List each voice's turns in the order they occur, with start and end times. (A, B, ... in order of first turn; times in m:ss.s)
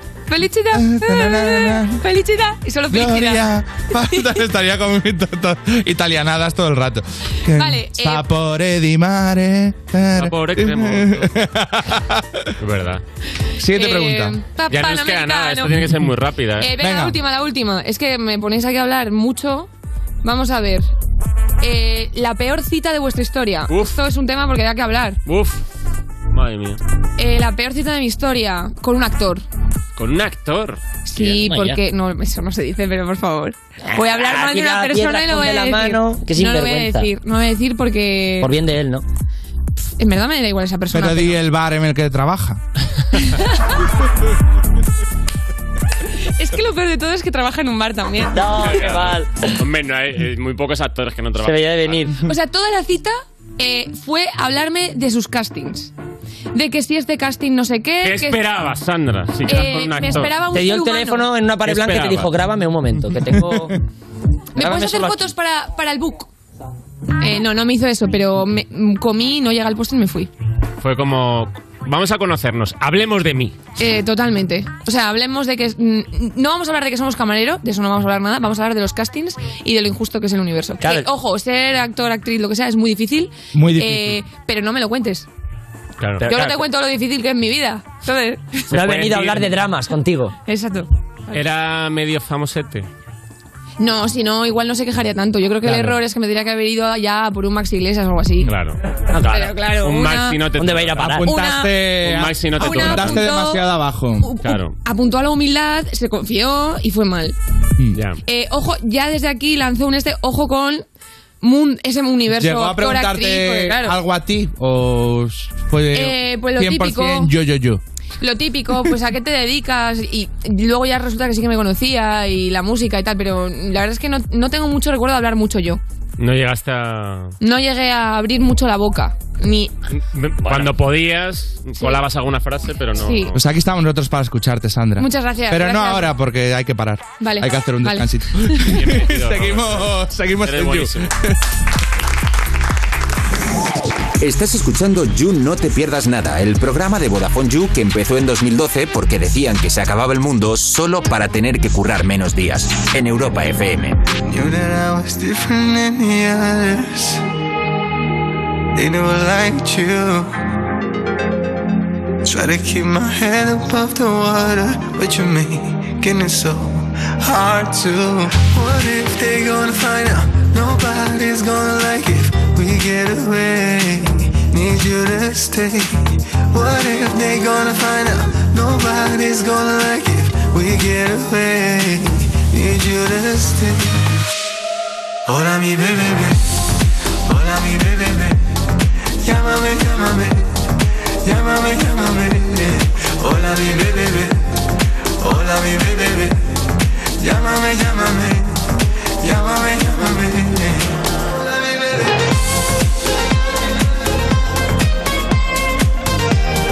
0:00.3-0:03.5 A
0:00.7-0:02.0 B
0:02.9-0:12.4 B
0:04.0-0:04.3 A
0:07.5-0:08.3 A
0:10.2-0:11.3 C
0:12.6-0:13.0 C
0:13.6-0:14.4 B
0:13.7-0:15.8 A
0:14.7-0:16.7 C
0:16.6-0:19.7 A
0:16.8-0:17.2 B
0:20.2-0:20.9 A
0:21.6-0:25.2 A
0:23.7-0:24.0 C
0:25.3-0:25.6 C
0:26.3-0:26.8 C
0:27.2-0:29.4 A
0:30.0-0:30.8 C
0:31.0-0:38.5 A
0:31.2-0:31.8 D
0:33.9-0:37.1 D
0:38.4-0:39.0 D
0:40.0-0:41.4 A
0:40.9-0:42.6 B
0:43.2-0:43.6 A
0:46.4-0:48.6 A
0:48.3-0:49.3 D
0:48.5-0:52.0 C
0:51.4-0:52.2 D
0:52.2-0:55.9 A
0:56.5-0:58.4 A
0:58.0-1:00.4 C
0:59.4-1:01.3 A
1:00.5-1:03.7 D
1:01.6-1:02.3 C
1:03.3-1:03.8 B
1:04.6-1:05.3 D
1:04.6-1:06.3 A
1:07.2-1:10.3 A
1:10.8-1:13.6 C
1:13.8-1:25.3 A
1:20.8-1:21.1 D
1:23.5-1:24.2 B
1:26.0-1:26.3 C
1:26.2-1:26.7 D
1:26.2-1:28.7 A
1:28.7-1:29.6 C
1:28.7-1:30.3 D
1:30.5-1:31.4 A
1:31.3-1:32.9 C
1:33.8-1:38.5 A
1:35.6-1:36.0 D
1:38.4-1:41.2 C
1:39.1-1:39.6 D
1:39.3-1:40.4 A
1:40.5-1:41.3 D
1:41.0-1:44.3 B
1:41.2-1:41.8 A
1:42.0-1:43.3 C
1:42.6-1:43.6 A
1:44.2-1:47.4 A
1:44.4-1:44.8 C
1:47.9-1:48.2 C
1:48.2-1:50.8 A
1:51.4-1:54.0 A
1:52.3-1:57.8 B
1:55.9-1:57.3 A
1:58.2-2:05.8 A
2:06.2-2:07.4 C
2:07.4-2:09.7 A
2:09.9-2:13.4 C
2:13.0-2:13.3 A
2:13.3-2:21.4 B
2:15.0-2:16.1 A
2:17.2-2:18.7 A
2:18.6-2:21.1 C
2:24.2-2:34.0 E
2:34.3-2:37.2 F
2:38.7-2:40.3 F
2:42.2-3:04.2 F
3:05.3-3:06.6 F
3:07.2-3:08.6 F
3:09.2-3:14.6 F
3:15.2-3:21.0 F
3:21.6-3:21.9 F